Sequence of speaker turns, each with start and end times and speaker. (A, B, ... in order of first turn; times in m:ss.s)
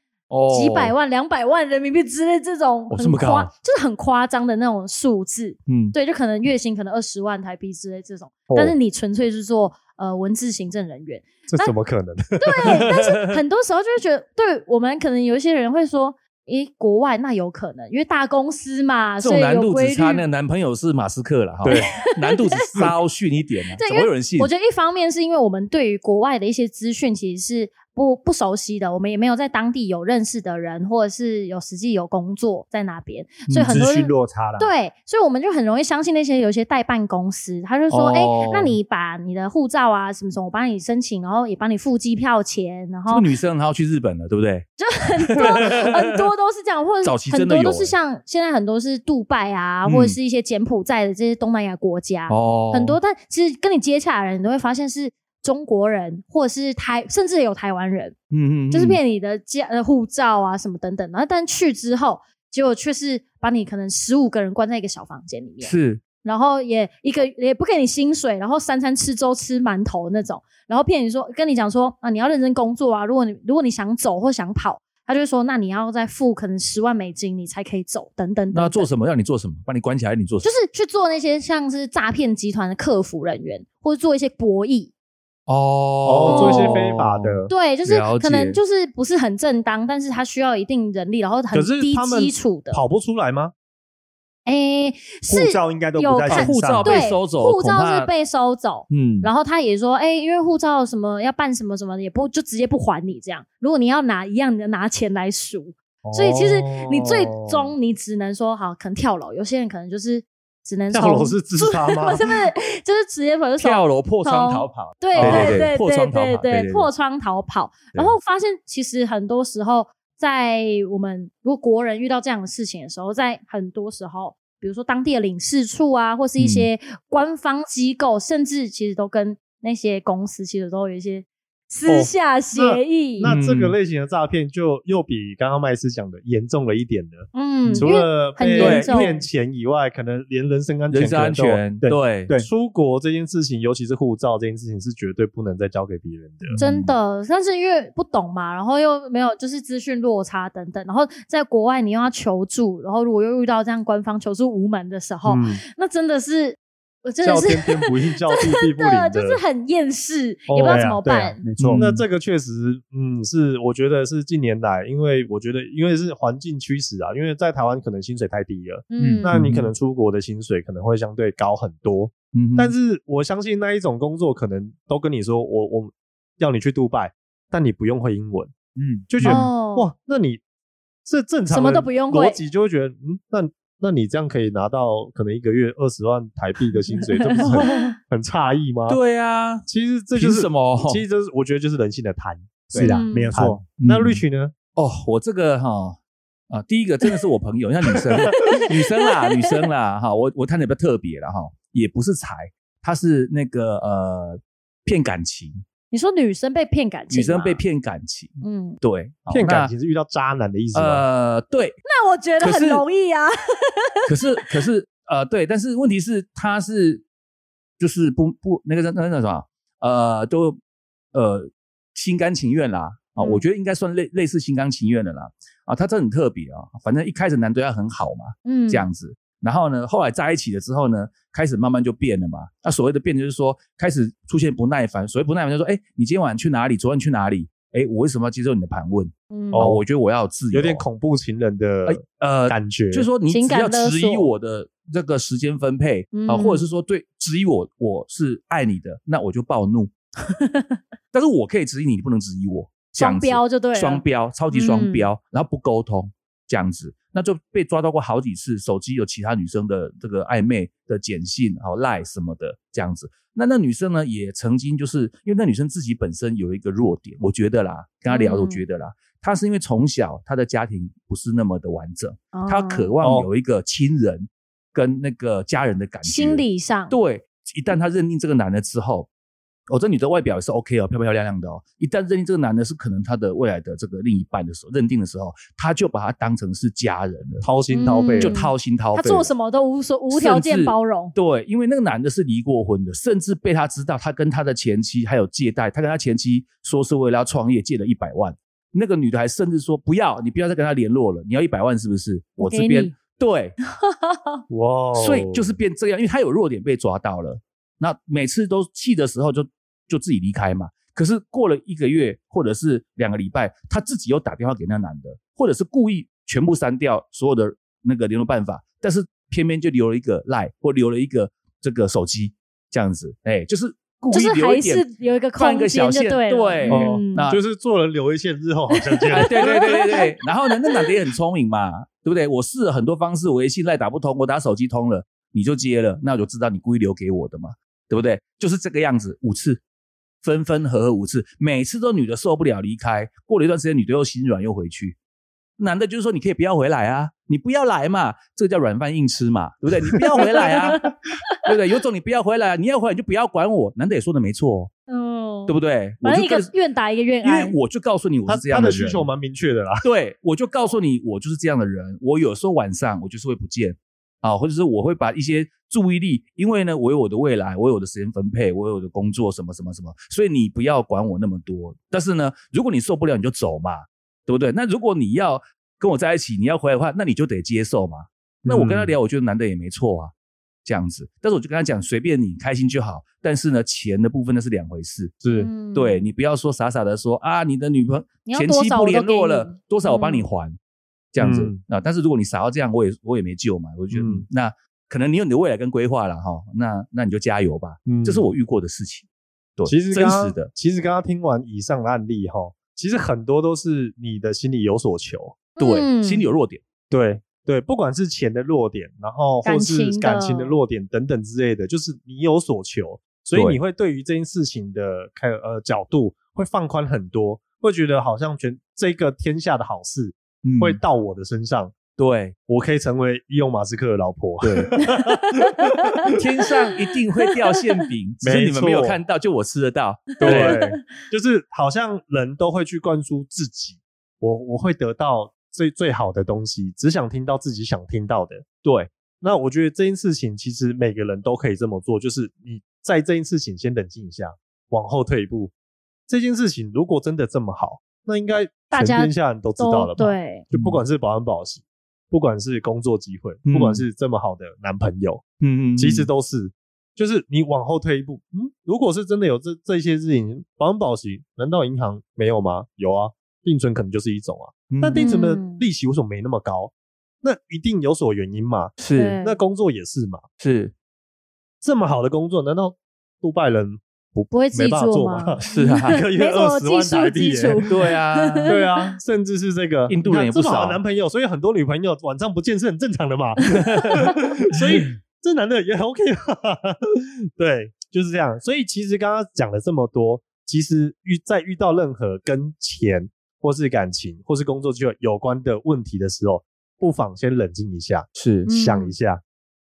0:00.3-0:00.9 A
0:00.5-0:11.7 B
0:02.9-0:03.5 A
0:05.7-0:06.0 A
0:08.5-0:08.8 C
0:11.5-0:12.8 C
0:12.4-0:20.2 B
0:12.8-0:13.4 A
0:19.2-0:24.5 A
0:21.6-0:22.0 C
0:21.7-0:22.9 B
0:23.7-0:43.3 B
0:33.5-0:33.8 A
0:33.7-0:34.7 D
0:37.9-0:38.8 A
0:43.1-0:46.0 A
0:44.8-0:58.2 B
0:47.0-0:47.9 A
0:49.8-0:50.2 A
0:52.3-0:53.0 A
0:58.3-0:59.0 A
0:58.7-1:18.9 B
1:05.6-1:06.0 A
1:18.5-1:20.5 A
1:20.4-1:24.9 B
1:25.5-1:28.6 A
1:26.0-1:27.5 C
1:26.2-1:26.9 B
1:27.5-1:32.8 B
1:31.5-1:33.5 C
1:34.4-2:13.3 B
1:35.3-1:37.0 D
1:36.3-1:38.1 A
1:38.9-1:39.3 A
1:46.0-1:47.7 C
1:50.9-1:52.3 C
1:53.6-1:56.9 A
1:55.2-1:55.7 C
2:06.4-2:06.7 A
2:11.9-2:21.6 C
2:13.2-2:13.7 A
2:17.3-2:19.2 B
2:18.5-2:19.2 A
2:20.9-2:22.3 A
2:21.8-2:22.5 D
2:22.4-2:26.6 C
2:26.4-2:26.9 D
2:26.6-2:41.5 B
2:35.2-2:35.6 C
2:37.2-2:39.4 C
2:40.5-2:40.8 C
2:40.6-2:42.0 D
2:41.6-2:41.9 A
2:41.8-2:58.5 C
2:48.9-2:49.3 B
2:49.0-2:49.2 D
2:49.3-2:49.7 A
2:52.3-2:52.7 A
2:58.8-2:59.3 D
2:59.1-3:00.4 C
2:59.2-2:59.9 B
3:01.0-3:09.0 C
3:01.5-3:02.4 B
3:07.1-3:07.9 B
3:07.4-3:07.7 A
3:08.9-3:11.0 A
3:09.7-3:14.5 C
3:12.7-3:13.7 D
3:12.8-3:13.4 B
3:13.8-3:14.2 A
3:14.8-3:16.0 A
3:16.5-3:25.6 A
3:25.9-3:27.6 B
3:27.1-3:29.7 A
3:28.4-3:28.8 B
3:29.3-3:31.0 C
3:30.7-3:31.7 A
3:31.8-3:34.2 B
3:32.4-3:32.8 A
3:34.1-3:37.0 A
3:37.8-3:40.6 A
3:41.1-4:00.8 A
3:43.2-3:43.4 B
3:48.4-3:48.8 B
3:59.3-3:59.7 B
3:59.5-3:59.8 C
4:00.5-4:03.1 C
4:01.8-4:09.9 A
4:03.3-4:04.3 B
4:06.1-4:06.6 B
4:10.3-4:10.8 B
4:11.1-4:39.1 A
4:13.0-4:15.1 B
4:28.1-4:28.6 B
4:32.3-4:32.9 B
4:33.0-4:33.3 C
4:36.0-4:37.0 B
4:39.7-4:47.5 A
4:47.4-4:48.4 C
4:47.7-4:51.1 B
4:48.2-4:49.3 A
4:50.1-5:03.5 A
5:02.4-5:02.9 B
5:03.8-5:04.4 B
5:04.5-5:05.5 C
5:04.9-5:27.4 A
5:24.1-5:27.3 B
5:26.7-5:29.6 C
5:28.9-5:30.9 B
5:29.1-5:39.6 A
5:40.2-5:45.0 A
5:45.6-5:50.8 A
5:50.2-5:50.8 B
5:51.4-5:54.7 A
5:54.9-5:57.6 B
5:55.5-5:56.5 A
5:57.2-5:59.1 A
5:58.2-5:59.8 C
5:59.8-6:20.1 A
6:18.4-6:18.9 C
6:20.6-6:25.1 A
6:25.2-6:25.5 C
6:25.3-6:26.1 B
6:25.7-6:30.6 A
6:28.2-6:30.3 B
6:31.1-6:40.5 A
6:31.2-6:31.6 C
6:33.9-6:34.3 C
6:37.8-6:38.2 C
6:39.6-6:45.4 C
6:45.6-6:46.6 A
6:45.6-6:46.3 B
6:46.9-7:01.8 C
6:49.4-6:50.6 B
7:00.4-7:00.8 A
7:01.9-7:02.3 A
7:02.4-7:06.2 C
7:05.6-7:06.1 B
7:06.2-7:10.6 A
7:08.2-7:09.0 C
7:10.2-7:10.7 B
7:10.2-7:18.4 C
7:18.6-7:18.9 A
7:19.2-7:25.5 C
7:26.1-7:50.2 C
7:28.7-7:30.4 B
7:30.5-7:30.8 A
7:33.5-7:33.8 A
7:35.4-7:36.1 A
7:44.7-7:45.1 A
7:44.9-7:45.6 B
7:48.8-7:49.2 A
7:48.9-7:49.4 B
7:50.4-7:50.7 A
7:51.6-7:57.7 C
7:54.3-7:58.9 B
7:55.4-7:56.0 A
7:57.7-7:58.5 A
7:58.4-8:19.2 C
7:59.9-8:00.8 A
8:03.5-8:03.9 A
8:18.2-8:18.5 A
8:18.5-8:19.0 B